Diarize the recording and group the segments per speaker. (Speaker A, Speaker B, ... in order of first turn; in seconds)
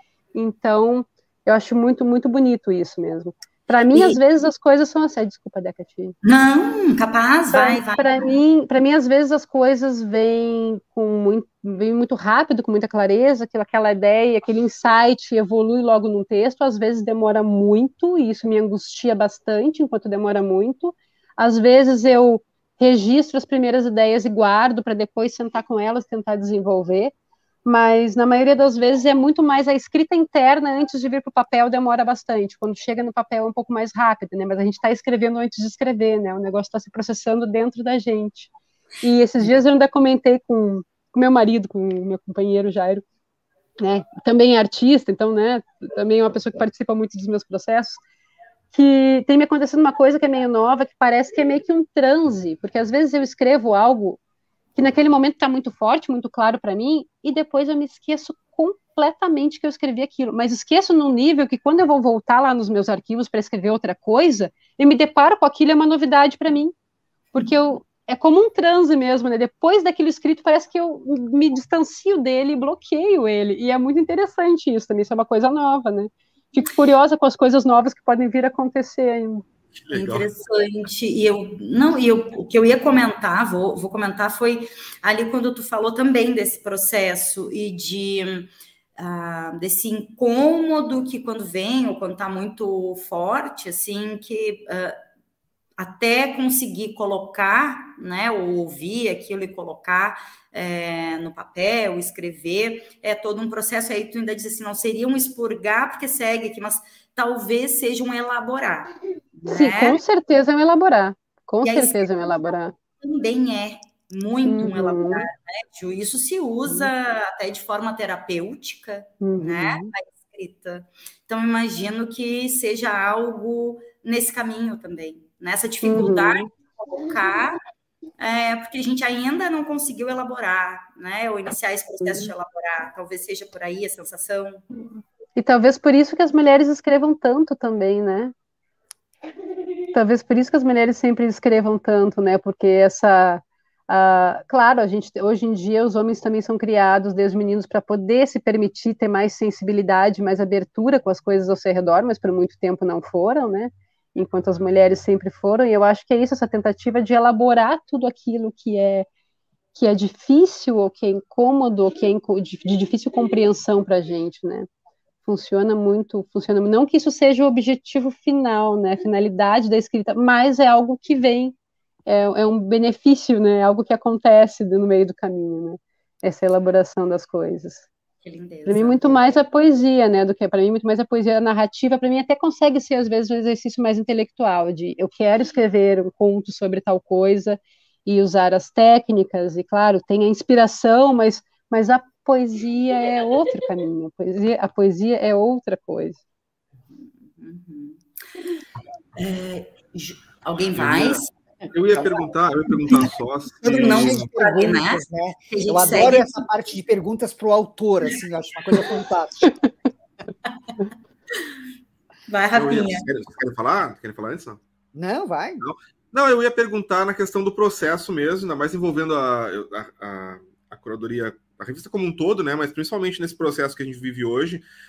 Speaker A: 0.3-6.1, 7.5-27.1, 27.6-38.5, 39.0-43.0, 43.8-48.0, 48.7-54.2, 54.7-66.7, 67.3-79.4, 109.5-112.7, 114.4-115.3, 119.2-119.9, 125.8-126.5, 132.0-132.3, 135.3-138.3, 139.9-159.1, 159.7-164.7, 165.2-171.5, 172.1-177.9, 178.7-196.2
Speaker B: 3.9-4.2, 6.2-8.3, 79.9-95.0, 95.8-110.0, 111.6-112.2, 113.0-127.6, 128.2-134.6, 178.2-179.2, 196.9-198.0, 199.2-201.3, 203.7-206.2, 212.3-213.1
Speaker C: 79.7-80.2, 200.8-204.3, 212.5-214.6, 215.6-224.6
Speaker D: 203.6-209.5, 214.9-215.6